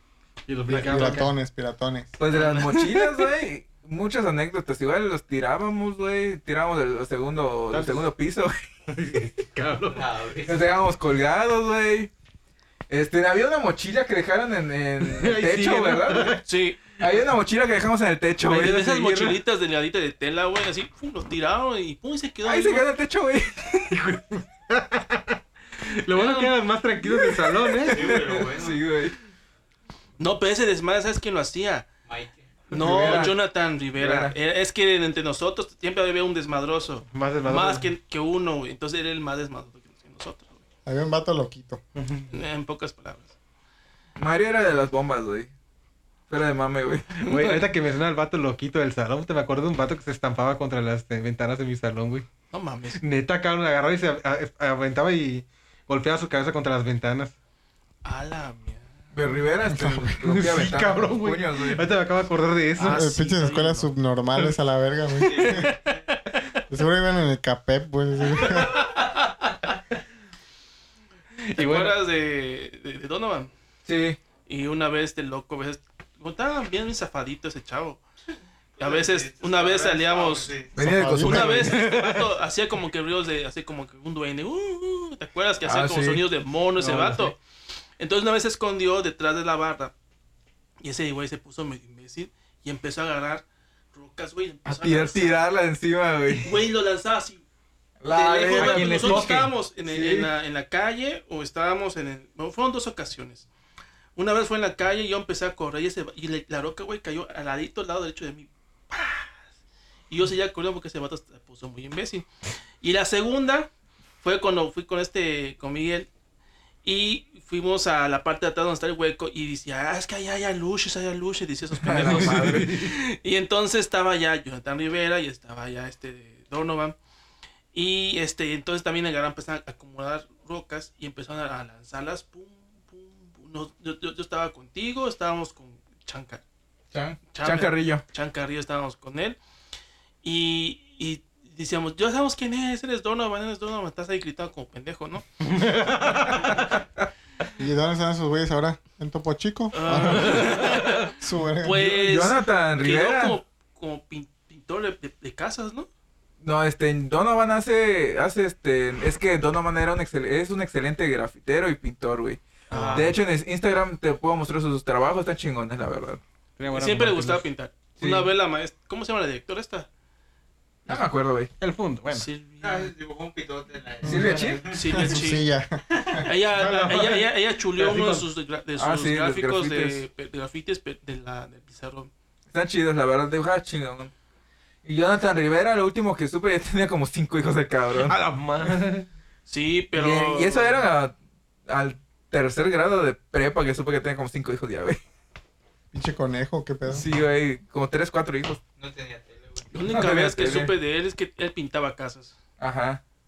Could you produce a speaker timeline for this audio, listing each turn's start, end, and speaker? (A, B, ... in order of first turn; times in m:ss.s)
0:00.5-0:01.3 A
0:00.7-0:02.1 B
0:02.2-0:08.5 C
0:02.3-0:03.3 D
0:07.7-0:08.0 A
0:08.9-0:10.1 A
0:09.9-0:10.8 E
0:10.4-0:12.1 C
0:12.9-0:16.4 C
0:15.0-0:16.4 A
0:16.4-0:16.8 D
0:17.0-0:18.8 C
0:18.5-0:22.9 D
0:18.6-0:19.4 A
0:22.4-0:23.9 C
0:23.9-0:28.3 A
0:26.1-0:26.5 D
0:27.8-0:29.2 C
0:27.8-0:28.8 E
0:30.2-0:31.8 D
0:32.0-0:32.8 E
0:32.7-0:40.6 D
0:32.7-0:33.4 C
0:34.0-0:34.4 C
0:37.1-0:37.9 A
0:40.8-0:41.8 B
0:42.0-0:42.3 A
0:42.3-0:43.3 D
0:44.2-0:45.5 C
0:46.3-0:47.2 C
0:47.2-0:52.2 A
0:47.2-0:47.6 D
0:52.5-0:53.0 D
0:52.9-0:57.3 A
0:58.0-0:58.9 D
0:59.1-1:01.9 C
0:59.7-1:00.2 B
1:00.2-1:03.1 A
1:02.8-1:03.9 D
1:02.8-1:05.7 B
1:05.2-1:05.8 E
1:05.4-1:06.0 D
1:06.7-1:08.8 B
1:11.5-1:11.9 A
1:11.6-1:13.5 D
1:13.8-1:14.2 C
1:14.5-1:18.0 D
1:18.8-1:20.5 D
1:18.8-1:20.9 E
1:20.7-1:21.8 C
1:20.8-1:21.6 B
1:21.2-1:27.4 D
1:21.4-1:22.3 A
1:25.6-1:26.2 C
1:26.8-1:27.3 A
1:28.0-1:29.9 D
1:30.8-1:35.4 D
1:34.6-1:36.6 C
1:36.3-1:37.4 D
1:38.0-1:40.3 C
1:38.1-1:43.5 D
1:38.5-1:39.5 A
1:44.2-1:49.3 D
1:50.1-1:52.2 D
1:52.8-1:53.7 D
1:54.2-1:56.1 D
1:56.8-2:07.0 D
2:01.8-2:02.8 C
2:01.9-2:02.9 A
2:07.7-2:16.4 D
2:16.9-2:18.0 C
2:17.3-2:19.4 D
2:20.2-2:25.4 D
2:25.4-2:26.4 A
2:27.6-2:32.0 B
2:29.7-2:35.9 D
2:30.4-2:30.9 A
2:31.9-2:33.4 C
2:36.4-2:46.2 C
2:42.7-2:43.1 D
2:42.7-2:43.2 A
2:46.6-2:47.4 A
2:46.7-2:49.9 D
2:48.0-2:48.3 C
2:50.8-2:51.5 C
2:51.6-2:52.3 A
2:52.1-2:52.9 D
2:52.6-2:55.2 E
2:54.0-2:56.2 B
2:54.0-2:54.7 C
2:54.7-2:55.4 D
2:55.9-2:56.2 E
2:56.2-3:02.1 D
2:56.5-2:58.2 A
2:58.8-3:00.0 C
3:02.5-3:04.1 C
3:04.8-3:08.2 C
3:07.9-3:09.1 A
3:09.5-3:10.8 D
3:09.9-3:11.1 C
3:11.7-3:15.0 C
3:15.9-3:17.1 B
3:16.9-3:18.6 C
3:18.8-3:19.9 E
3:19.7-3:22.4 D
3:19.8-3:20.7 C
3:22.6-3:23.0 C